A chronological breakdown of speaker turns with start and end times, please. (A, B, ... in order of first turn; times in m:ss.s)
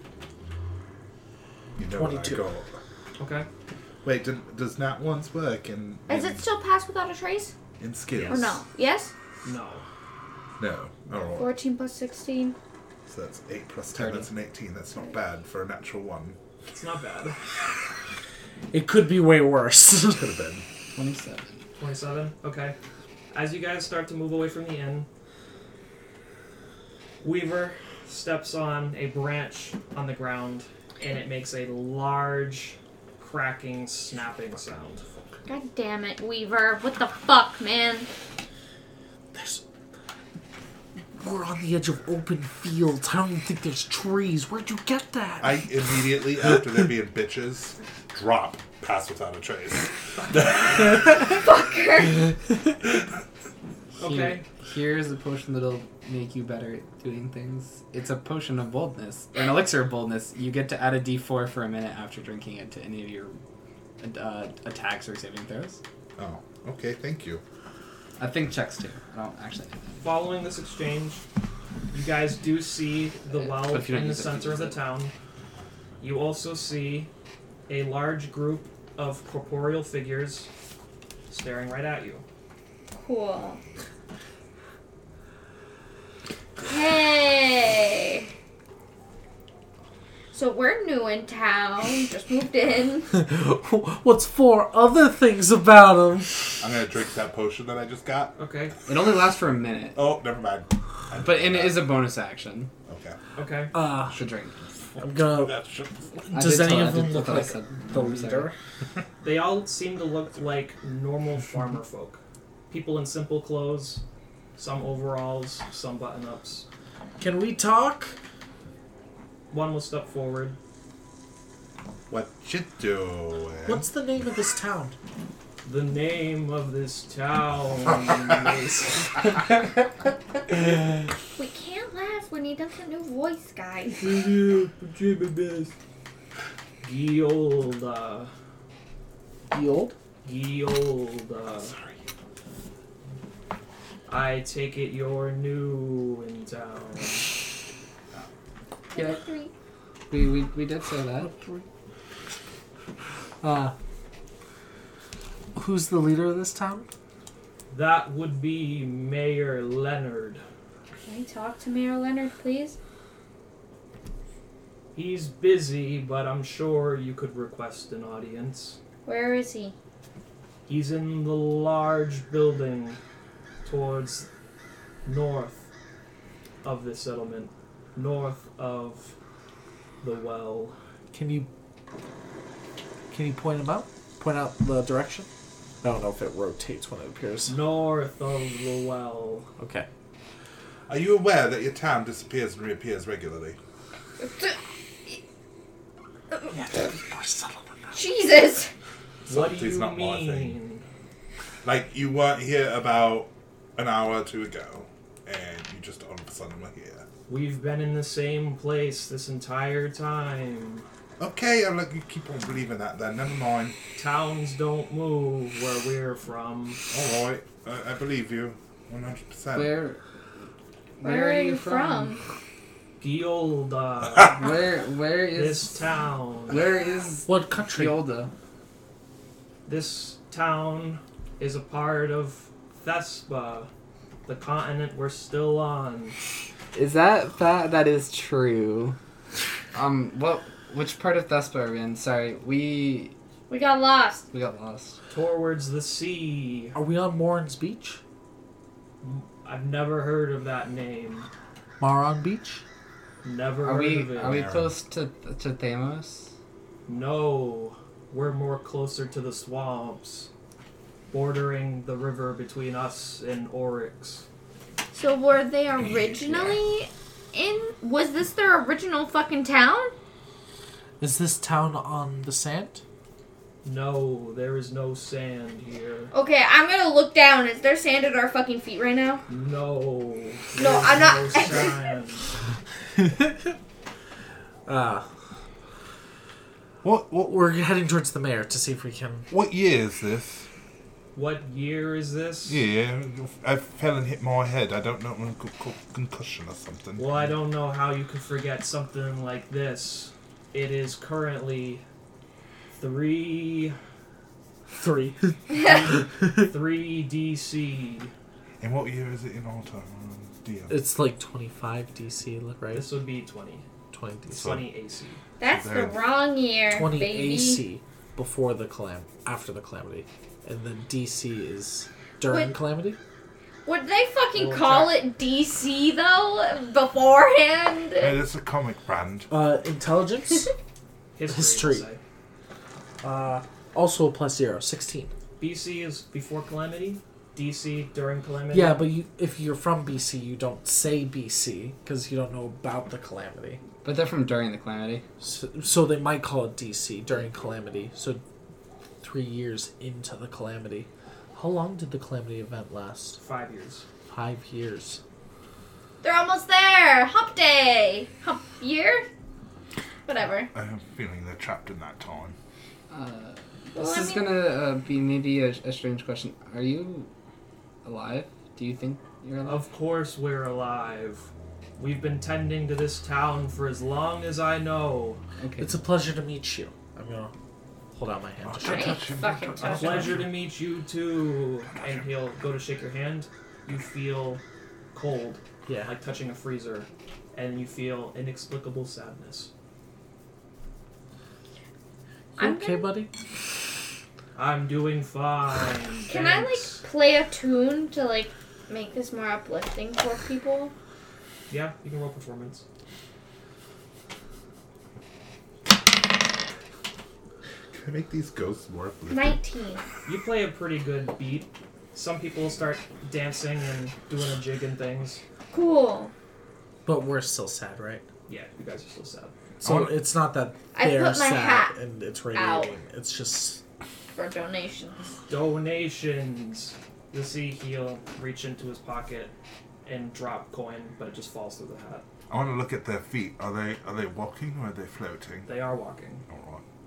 0:01.8-0:02.8 A
0:01.9-0:02.5 B
0:03.2-0:03.5 C
0:04.0-0:06.5 A
0:06.1-0:07.5 D
0:07.8-0:08.6 A
0:08.1-0:08.5 C
0:08.3-0:09.1 D
0:09.4-0:09.8 C
0:10.6-0:11.6 A
0:11.4-0:12.6 D
0:13.1-0:16.4 A
0:16.7-0:17.4 C
0:18.7-0:20.4 B
0:20.1-0:20.6 A
0:21.0-0:21.6 E
0:21.8-0:22.8 C
0:23.3-0:25.1 C
0:27.2-0:35.1 C
0:35.5-0:38.1 D
0:39.3-0:39.6 B
0:41.2-0:46.6 B
0:45.4-0:51.2 A
0:51.4-0:52.3 D
0:54.0-0:54.4 C
0:54.0-1:03.4 E
1:04.0-1:05.8 E
1:06.2-1:07.4 A
1:08.2-1:10.1 E
1:10.0-1:11.2 C
1:11.9-1:15.1 C
1:13.3-1:14.8 E
1:16.0-1:17.1 C
1:17.7-1:20.5 C
1:21.3-1:22.2 C
1:22.9-1:23.6 D
1:26.6-1:28.3 D
1:30.3-1:33.1 D
1:33.1-1:36.7 B
1:36.6-1:38.4 A
1:38.4-1:38.8 C
1:38.9-1:40.0 E
1:40.0-1:41.9 A
1:41.2-1:42.7 E
1:42.9-1:43.2 A
1:43.4-1:43.7 C
1:43.7-1:44.2 B
1:44.1-1:44.8 E
1:45.0-1:45.6 B
1:45.0-1:46.2 A
1:46.3-1:48.5 B
1:46.3-1:48.5 E
1:49.2-1:54.0 C
1:54.6-1:56.7 C
1:57.2-1:58.2 B
1:59.5-2:00.6 C
2:02.1-2:03.9 A
2:03.7-2:05.0 B
2:05.6-2:09.2 C
2:11.4-2:14.1 D
2:14.0-2:15.7 C
2:16.8-2:18.3 C
2:19.5-2:20.0 B
2:20.2-2:21.7 C
2:21.7-2:22.0 A
2:24.1-2:27.3 C
2:28.9-2:29.5 D
2:30.1-2:31.3 E
2:31.2-2:31.6 B
2:33.4-2:33.8 B
2:35.6-2:36.9 B
2:37.7-2:40.4 C
2:41.0-2:42.8 D
2:45.0-2:48.8 C
2:49.0-2:49.7 D
2:50.7-2:53.0 C
2:53.6-2:54.3 C
2:55.0-2:55.7 C
2:56.6-2:59.2 C
3:00.0-3:00.8 C
3:01.1-3:01.5 B
3:03.1-3:05.3 B
3:05.8-3:07.6 B
3:07.5-3:09.5 C
3:09.6-3:09.9 B
3:10.9-3:13.6 A
3:14.2-3:14.6 D
3:16.5-3:18.0 B
3:17.9-3:18.7 D
3:19.3-3:20.8 C
3:19.3-3:20.6 A
3:21.6-3:27.0 A
3:27.3-3:30.8 C
3:31.2-3:33.8 A
3:34.0-3:36.8 C
3:36.9-3:39.8 A
3:39.5-3:40.0 E
3:41.0-3:42.2 E
3:41.0-3:42.2 D
3:43.0-3:44.4 C
3:44.2-3:45.8 E
3:45.3-3:46.6 C
3:46.5-3:48.3 E
3:47.3-3:48.0 B
3:49.7-3:53.7 C
3:54.3-3:56.2 C
3:56.7-3:59.0 E
3:59.7-4:03.1 E
4:03.5-4:04.3 D
4:04.3-4:05.0 E
4:05.1-4:06.8 C
4:06.8-4:08.0 B
4:09.0-4:11.3 C
4:11.8-4:12.6 B
4:13.2-4:14.5 C
4:13.6-4:16.3 E
4:14.2-4:14.8 A
4:16.9-4:20.3 C
4:21.1-4:24.2 C
4:24.9-4:29.9 D
4:25.8-4:26.6 A
4:31.0-4:32.8 B
4:33.6-4:36.1 C
4:36.1-4:39.2 D
4:39.3-4:42.3 C
4:40.6-4:41.8 D
4:43.0-4:43.6 B
4:44.7-4:45.1 B
4:46.8-4:47.4 A
4:47.2-4:49.3 B
4:49.3-4:50.5 A
4:51.2-4:52.6 C
4:52.5-4:57.0 A
4:57.0-5:01.8 C
5:02.8-5:03.8 C
5:04.7-5:06.5 B
5:05.5-5:08.1 C
5:08.6-5:10.8 A
5:10.7-5:12.9 B
5:12.7-5:13.7 C
5:13.9-5:14.6 B
5:14.3-5:15.2 C
5:14.4-5:14.6 A
5:15.4-5:17.6 D
5:15.4-5:16.2 A
5:16.7-5:23.0 B
5:22.3-5:22.5 D
5:23.7-5:28.2 D
5:24.3-5:25.0 C
5:28.0-5:29.3 A
5:29.3-5:30.5 B
5:31.2-5:32.0 C
5:31.3-5:31.9 B
5:33.0-5:35.1 B
5:35.4-5:38.8 C
5:38.5-5:43.6 B
5:43.8-5:45.0 E
5:45.2-5:48.2 B
5:49.0-5:53.2 B
5:53.2-5:53.8 C
5:54.1-5:55.0 B
5:56.0-5:59.1 D
6:00.1-6:00.5 D
6:00.5-6:02.4 A
6:02.9-6:07.1 E
6:03.8-6:04.3 D
6:07.8-6:09.6 E
6:09.4-6:15.2 C
6:15.4-6:15.8 E
6:15.6-6:17.3 B
6:17.9-6:19.0 B
6:18.4-6:20.3 A
6:18.6-6:20.2 D
6:19.6-6:24.4 C
6:21.7-6:22.1 A
6:24.9-6:29.5 C
6:25.7-6:25.9 B
6:32.4-6:32.9 D
6:32.4-6:33.2 B
6:34.4-6:36.8 C
6:36.1-6:40.7 D
6:41.5-6:42.6 C
6:47.7-6:49.4 A
6:49.1-6:49.8 D
6:50.1-6:55.2 C
6:55.5-6:56.1 D
6:56.8-6:58.0 B
6:58.3-6:59.4 C
6:59.6-7:03.6 B
6:59.6-7:00.0 A
7:00.7-7:01.7 D
7:02.3-7:02.8 D
7:04.2-7:05.1 D
7:05.3-7:09.3 C
7:09.8-7:12.0 C
7:12.3-7:15.5 A
7:15.4-7:16.2 C
7:16.3-7:16.6 A